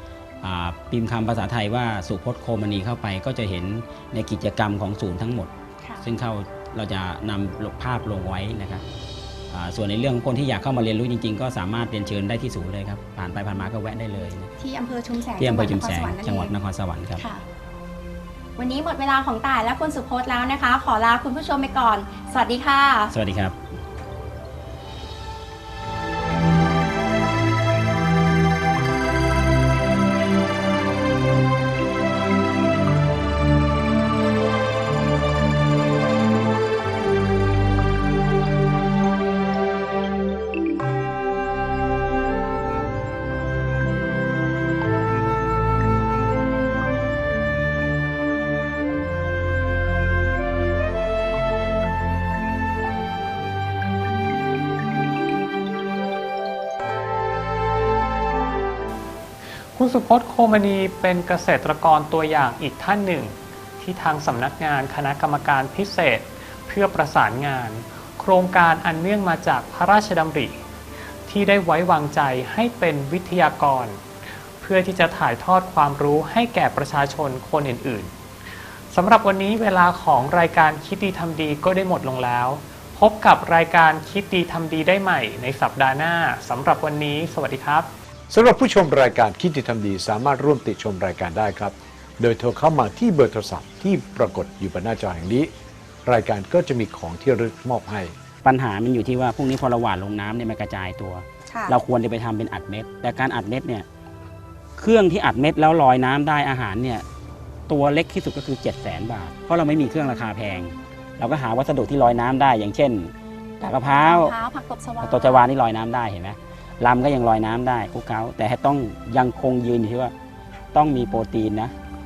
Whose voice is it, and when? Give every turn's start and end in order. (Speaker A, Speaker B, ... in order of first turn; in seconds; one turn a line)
Speaker A: 0.4-8.8
Speaker A: 9.5-14.5
Speaker B: 14.6-16.5
Speaker A: 15.4-17.2
Speaker B: 17.2-17.4
Speaker B: 18.6-23.1
Speaker A: 23.1-23.6
Speaker C: 59.7-70.7
Speaker C: 71.3-78.1
Speaker C: 78.9-87.9
Speaker D: 88.3-95.5
Speaker D: 96.1-98.1
Speaker A: 98.4-103.9
Speaker B: 101.5-101.7
Speaker A: 104.8-107.0
Speaker A: 107.7-114.3
Speaker B: 113.8-115.4
Speaker A: 115.0-120.1
Speaker A: 120.7-121.7